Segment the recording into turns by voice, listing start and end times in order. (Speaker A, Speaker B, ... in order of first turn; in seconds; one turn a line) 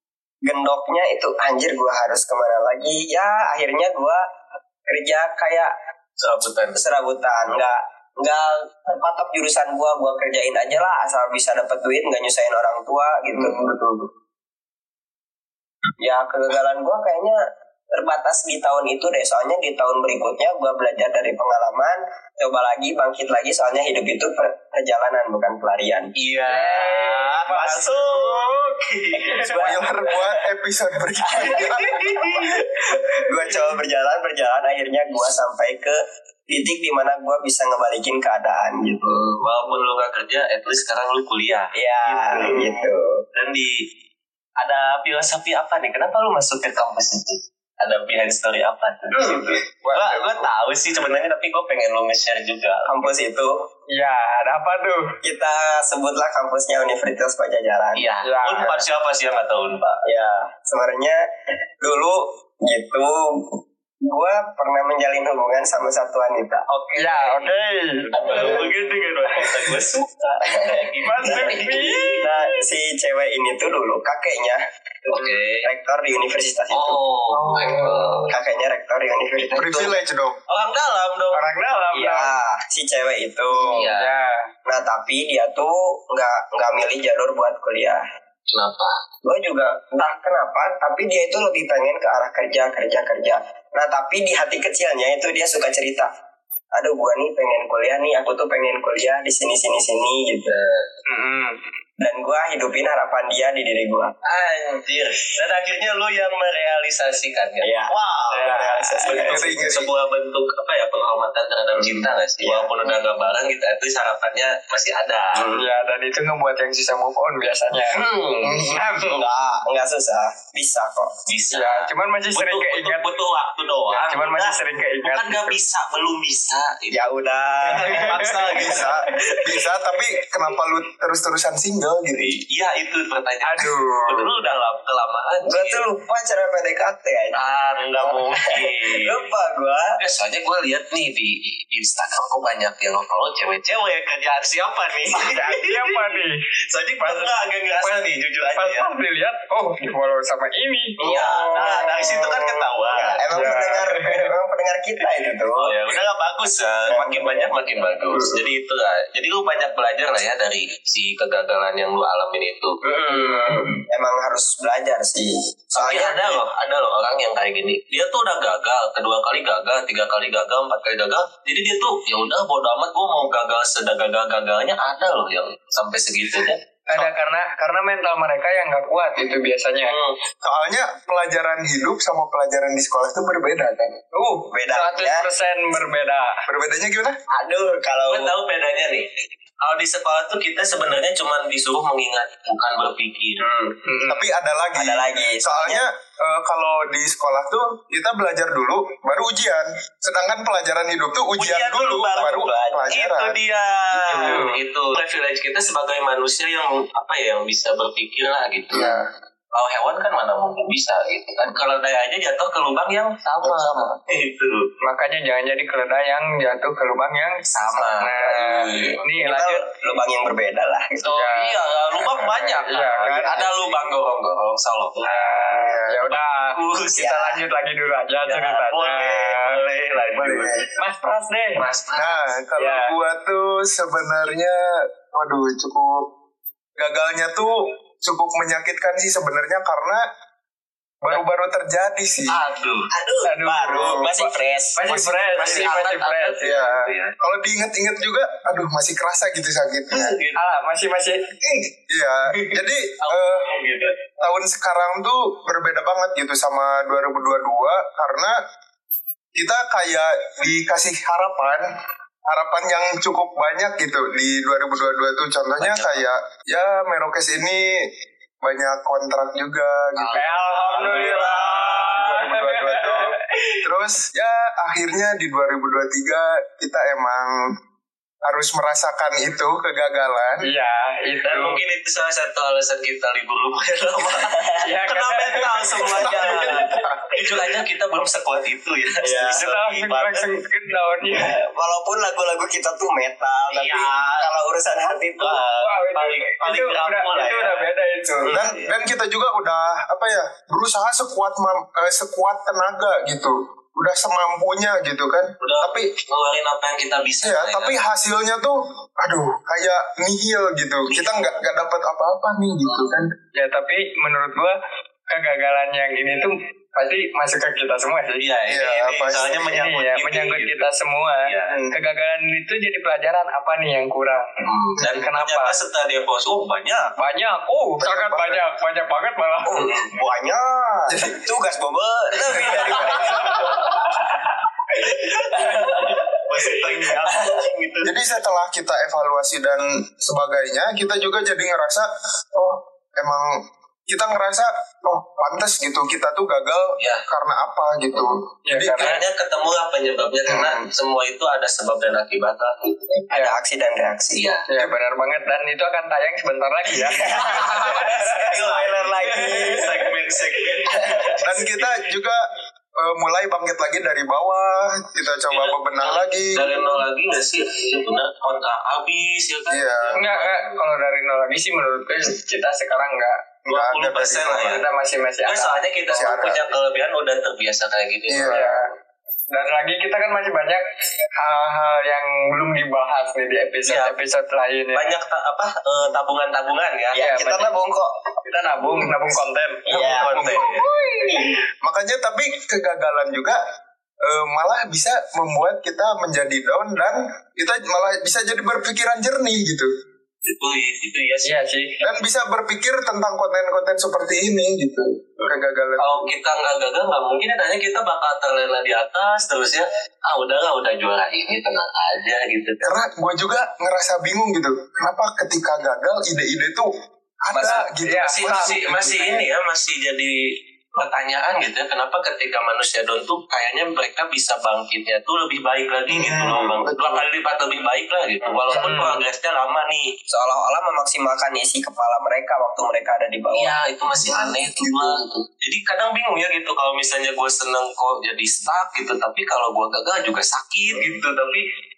Speaker A: 0.5-4.2
Speaker A: 4.9-5.7
Speaker B: 6.2-6.8
Speaker A: 6.7-13.6
Speaker C: 13.6-13.9
Speaker A: 16.0-17.4
Speaker A: 17.9-26.1
Speaker B: 26.2-29.6
Speaker C: 26.5-28.4
Speaker A: 29.3-30.3
Speaker D: 29.5-32.0
Speaker A: 31.2-39.4
Speaker B: 31.4-32.6
Speaker B: 39.3-43.8
Speaker A: 41.8-43.2
Speaker B: 44.6-52.9
Speaker C: 49.8-50.5
Speaker A: 52.9-53.5
Speaker C: 53.9-55.2
Speaker A: 55.2-58.0
Speaker B: 58.0-60.0
Speaker C: 58.2-58.8
Speaker A: 60.0-61.2
Speaker A: 61.8-66.7
Speaker B: 66.7-67.5
Speaker C: 67.0-68.8
Speaker B: 68.1-72.3
Speaker A: 68.2-68.7
Speaker A: 70.4-71.7
Speaker C: 71.0-72.6
Speaker A: 72.2-77.0
Speaker B: 75.1-75.7
Speaker B: 76.7-78.3
Speaker C: 77.3-78.3
Speaker A: 78.3-80.0
Speaker D: 79.5-80.4
Speaker B: 80.5-81.5
Speaker C: 81.3-82.4
Speaker A: 81.9-83.9
Speaker C: 83.6-84.5
Speaker B: 83.6-84.1
Speaker A: 84.7-88.0
Speaker B: 88.5-89.0
Speaker A: 89.2-96.1
Speaker A: 96.7-100.6
Speaker B: 100.5-100.9
Speaker C: 101.1-101.6
Speaker A: 102.0-104.1
Speaker B: 104.2-115.6
Speaker A: 107.6-109.5
Speaker C: 108.3-109.1
Speaker D: 109.3-109.9
Speaker A: 111.8-113.0
Speaker C: 115.5-119.2
Speaker B: 117.9-118.8
Speaker A: 118.4-121.2
Speaker B: 121.3-129.0
Speaker C: 121.5-123.1
Speaker C: 123.9-125.6
Speaker A: 126.9-128.4
Speaker C: 127.8-129.4
Speaker D: 128.4-132.4
Speaker B: 132.3-135.8
Speaker C: 133.4-134.3
Speaker A: 135.5-137.4
Speaker B: 137.3-139.3
Speaker A: 138.0-140.0
Speaker B: 140.0-148.9
Speaker C: 145.2-146.4
Speaker C: 147.0-151.6
Speaker A: 151.0-156.0
Speaker B: 151.0-153.7
Speaker C: 153.3-154.3
Speaker B: 155.6-162.8
Speaker A: 156.9-158.4
Speaker C: 162.9-163.8
Speaker A: 162.9-166.4
Speaker B: 165.8-176.6
Speaker C: 176.9-180.0
Speaker B: 179.9-180.2
Speaker D: 180.4-184.0
Speaker C: 184.1-186.4
Speaker A: 184.5-185.3
Speaker D: 186.5-187.2
Speaker A: 187.3-188.3
Speaker B: 188.1-189.1
Speaker B: 189.6-193.4
Speaker A: 193.4-193.8
Speaker C: 193.8-194.2
Speaker D: 194.1-203.4
Speaker A: 194.8-195.8
Speaker B: 201.4-208.9
Speaker A: 202.2-202.9
Speaker D: 203.9-204.5
Speaker C: 204.1-204.6
Speaker D: 208.7-209.0
Speaker B: 209.5-214.7
Speaker D: 213.4-214.0
Speaker C: 214.8-217.5
Speaker B: 217.5-219.0
Speaker A: 217.7-221.1
Speaker C: 218.0-219.6
Speaker B: 221.0-225.3
Speaker C: 221.0-223.5
Speaker C: 225.0-229.6
Speaker D: 225.5-226.0
Speaker B: 226.1-227.0
Speaker A: 226.9-227.4
Speaker B: 228.2-230.6
Speaker D: 230.2-230.7
Speaker C: 230.8-231.6
Speaker B: 231.6-232.2
Speaker D: 231.9-236.1
Speaker C: 232.6-232.9
Speaker D: 236.8-240.0
Speaker D: 241.1-242.4
Speaker B: 242.3-242.9
Speaker A: 242.9-244.8
Speaker C: 243.2-246.7
Speaker D: 244.9-245.7
Speaker B: 245.1-247.1
Speaker D: 246.4-250.2
Speaker B: 249.9-250.4
Speaker C: 250.4-251.3
Speaker D: 251.4-253.5
Speaker B: 253.0-254.0
Speaker D: 254.2-258.4
Speaker D: 259.4-261.6
Speaker D: 262.3-267.8
Speaker B: 265.6-266.1
Speaker D: 268.4-270.3
Speaker B: 270.0-272.0
Speaker C: 270.1-273.6
Speaker D: 271.9-277.4
Speaker D: 278.2-280.4
Speaker C: 280.4-281.6
Speaker B: 281.2-290.3
Speaker A: 284.0-284.7
Speaker C: 284.6-286.7
Speaker D: 285.9-286.9
Speaker A: 289.0-289.4
Speaker C: 289.3-291.4
Speaker A: 291.1-295.4
Speaker B: 293.5-294.3
Speaker B: 295.2-297.7
Speaker C: 295.6-298.4
Speaker A: 298.3-298.6
Speaker D: 298.3-305.9
Speaker B: 305.4-307.8
Speaker D: 307.2-313.1
Speaker B: 310.9-311.4
Speaker C: 313.4-314.6
Speaker C: 315.1-318.2
Speaker B: 318.2-320.6
Speaker D: 318.5-319.4
Speaker C: 319.5-325.6
Speaker B: 321.3-321.6
Speaker A: 321.5-321.7
Speaker B: 324.5-326.9
Speaker C: 327.0-329.8
Speaker D: 327.8-328.4
Speaker A: 329.4-333.9
Speaker D: 330.9-331.2
Speaker B: 332.1-333.9
Speaker A: 334.8-337.5
Speaker B: 334.8-337.9
Speaker C: 335.4-335.8
Speaker D: 337.8-348.9
Speaker B: 346.8-347.1
Speaker C: 348.5-349.0
Speaker B: 348.6-353.0
Speaker D: 350.3-350.6
Speaker A: 353.1-354.3
Speaker C: 353.1-353.4
Speaker B: 354.1-354.4
Speaker C: 354.5-358.3
Speaker A: 356.8-359.9
Speaker B: 356.8-361.7
Speaker C: 359.1-359.6
Speaker A: 360.6-361.3
Speaker D: 361.2-362.2
Speaker D: 362.8-366.8
Speaker B: 365.3-370.6
Speaker D: 369.5-370.0
Speaker C: 369.9-373.2
Speaker D: 373.5-374.6
Speaker B: 373.5-374.6
Speaker C: 374.3-376.1
Speaker B: 375.3-378.4
Speaker D: 375.9-376.5
Speaker D: 378.1-378.6
Speaker C: 378.2-378.7
Speaker C: 379.3-380.6
Speaker C: 381.2-384.9
Speaker B: 383.7-383.9
Speaker B: 384.7-387.1
Speaker A: 386.9-387.9
Speaker C: 387.0-387.5
Speaker C: 388.2-390.9
Speaker A: 389.7-390.6
Speaker B: 389.7-390.7
Speaker D: 390.3-393.4
Speaker D: 394.0-399.7
Speaker B: 400.3-401.3
Speaker C: 401.2-401.8
Speaker D: 401.8-406.1
Speaker B: 405.8-412.7
Speaker D: 412.6-416.7
Speaker D: 417.2-419.2
Speaker A: 417.3-417.6
Speaker C: 417.7-418.9
Speaker B: 418.1-429.9
Speaker D: 425.9-427.0
Speaker C: 428.5-429.0
Speaker A: 430.1-433.5
Speaker B: 433.3-441.4
Speaker D: 434.0-435.2